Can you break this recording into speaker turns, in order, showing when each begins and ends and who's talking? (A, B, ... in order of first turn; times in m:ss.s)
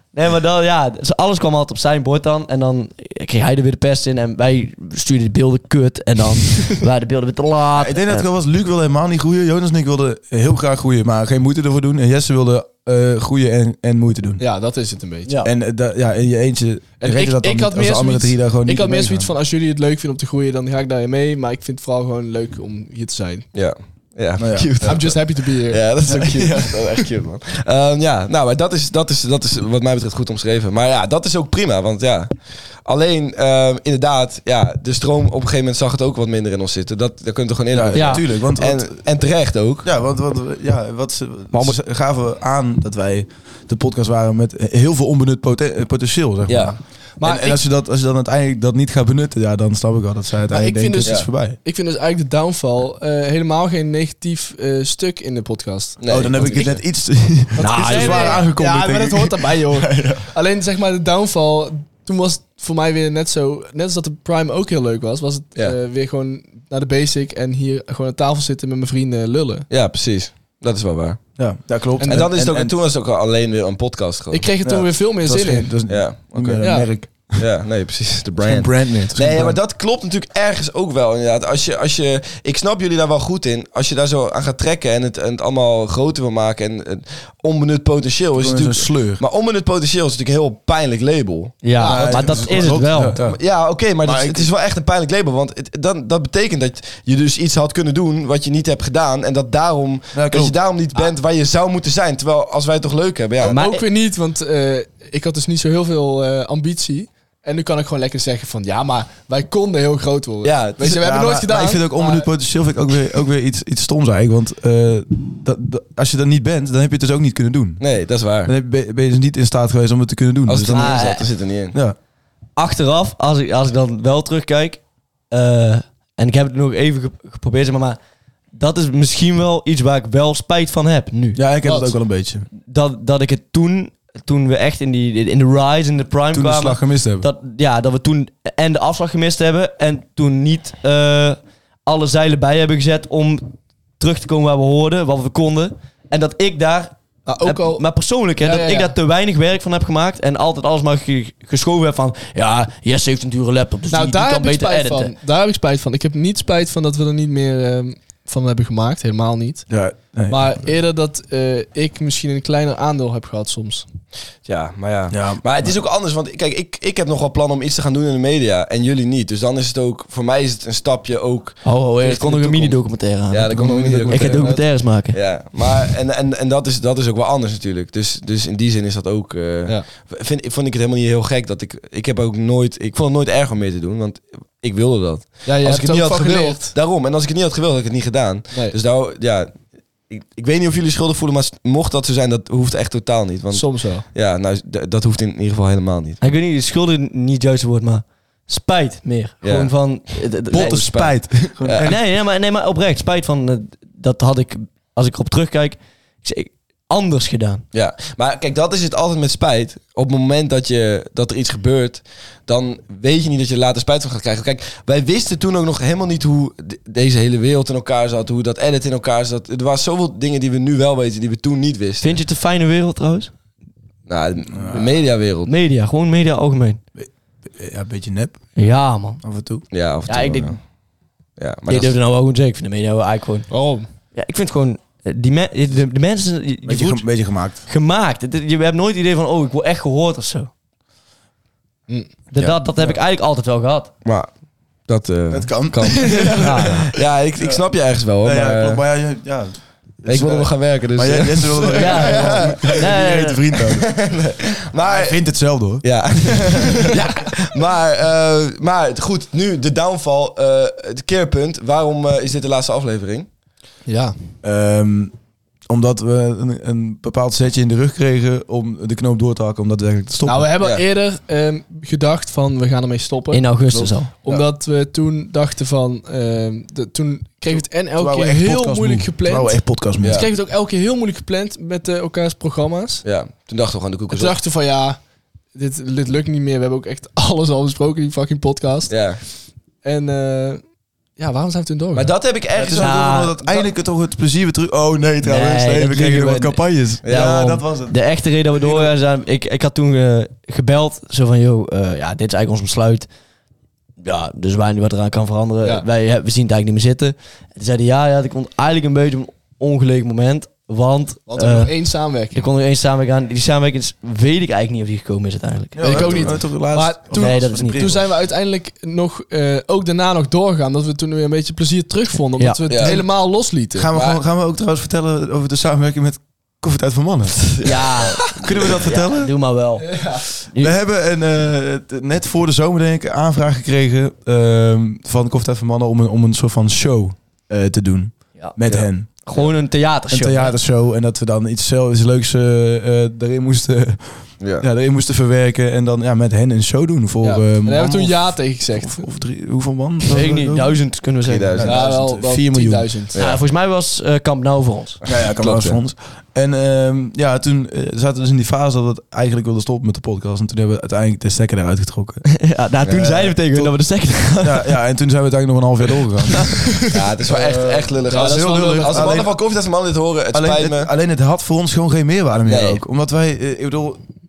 0:00.1-0:08.3 A
0:07.8-0:14.4 B
0:14.4-0:15.4 C
0:15.4-0:19.3 B
0:17.0-0:23.5 C
0:23.5-0:39.9 D
0:24.4-0:25.1 B
0:24.8-0:26.6 C
0:26.1-0:26.8 B
0:37.7-0:39.0 B
0:37.9-0:38.2 A
0:39.8-0:51.6 B
0:41.5-0:41.8 A
0:46.5-0:46.8 D
0:47.2-0:47.6 C
0:50.5-0:56.8 C
0:56.0-0:56.8 D
0:56.1-1:00.2 B
0:57.6-1:09.7 C
0:57.6-0:58.4 A
1:09.7-1:11.2 D
1:11.4-1:12.7 B
1:12.0-1:12.3 C
1:12.1-1:14.5 D
1:14.3-1:15.8 C
1:14.6-1:17.4 B
1:15.9-1:16.7 D
1:16.6-1:16.9 C
1:17.4-1:31.6 D
1:18.4-1:19.6 B
1:28.4-1:29.2 B
1:31.6-1:33.2 A
1:31.8-1:32.5 C
1:31.8-1:33.4 B
1:32.5-1:43.6 D
1:34.0-1:34.5 B
1:40.1-1:40.6 B
1:43.4-1:43.9 A
1:43.4-1:52.3 C
1:50.4-1:51.0 D
1:50.9-1:57.8 B
1:57.8-1:58.5 D
1:58.4-2:01.0 B
2:00.5-2:01.8 D
2:00.7-2:01.3 A
2:02.6-2:08.0 A
2:08.5-2:11.4 A
2:11.4-2:12.5 B
2:11.6-2:11.9 C
2:12.6-2:35.1 A
2:16.3-2:17.3 B
2:27.3-2:27.8 C
2:28.4-2:28.9 C
2:33.9-2:39.7 C
2:39.7-2:40.6 B
2:40.3-2:43.9 C
2:44.4-2:52.8 D
2:45.1-2:45.7 B
2:51.6-2:55.2 A
2:53.3-3:09.6 D
3:05.4-3:06.7 C
3:08.5-3:08.8 C
3:10.1-3:16.2 D
3:13.5-3:14.1 C
3:16.2-3:27.6 A
3:19.4-3:19.7 D
3:20.5-3:22.0 B
3:21.6-3:22.0 D
3:27.7-3:42.2 D
3:42.0-3:43.3 A
3:44.1-3:45.5 D
3:44.5-3:44.9 B
3:45.5-3:46.8 A
3:47.0-3:48.5 B
3:48.6-3:49.2 A
3:49.2-3:49.6 B
3:49.7-3:50.6 D
3:50.1-3:50.6 A
3:51.4-3:51.9 D
3:51.7-3:53.5 A
3:53.5-3:53.9 C
3:54.2-3:57.0 A
3:56.7-3:57.6 B
3:57.6-4:00.5 A
4:02.3-4:03.9 A
4:04.0-4:04.3 D
4:04.9-4:08.8 D
4:05.3-4:06.8 B
4:06.4-4:06.8 A
4:08.2-4:14.0 B
4:10.1-4:12.8 D
4:11.8-4:13.4 A
4:13.6-4:15.2 D
4:14.8-4:16.9 B
4:15.8-4:23.3 D
4:23.9-4:24.2 C
4:24.4-4:25.1 B
4:25.7-4:30.5 B
4:30.2-4:43.0 C
4:33.3-4:34.1 A
4:38.0-4:40.3 B
4:40.0-4:40.3 D
4:43.0-4:44.4 D
4:44.1-4:45.0 C
4:45.6-4:49.2 C
4:48.9-4:49.2 D
4:49.8-4:50.6 C
4:51.2-4:52.1 C
4:52.0-4:53.0 D
4:52.5-4:58.0 B
4:52.7-4:53.4 A
4:55.2-5:03.1 A
4:57.0-4:57.6 D
4:58.6-4:58.9 B
5:04.0-5:11.7 A
5:11.3-5:12.5 C
5:12.3-5:16.1 A
5:15.8-5:18.1 B
5:15.8-5:23.9 C
5:16.0-5:16.2 D
5:17.1-5:17.9 A
5:22.4-5:22.9 A
5:22.7-5:23.0 D
5:23.8-5:27.7 B
5:23.9-5:24.2 D
5:27.6-5:28.4 D
5:27.6-5:30.8 A
5:28.3-5:29.3 B
5:29.8-5:30.3 C
5:30.6-5:39.1 B
5:38.7-5:39.5 D
5:39.2-5:40.6 A
5:40.1-5:50.9 B
5:44.4-5:44.7 D
5:47.2-5:49.1 C
5:50.1-5:51.6 A
5:51.3-5:51.9 D
5:51.6-5:53.0 B
5:51.6-5:53.2 C
5:53.1-5:53.4 D
5:53.2-5:55.0 A
5:55.0-6:02.2 B
5:55.1-5:55.8 D
6:02.3-6:04.7 A
6:02.8-6:03.4 D
6:04.4-6:06.7 B
6:06.9-6:10.9 D
6:07.3-6:09.3 B
6:08.1-6:09.3 C
6:10.3-6:14.0 B
6:12.5-6:12.8 D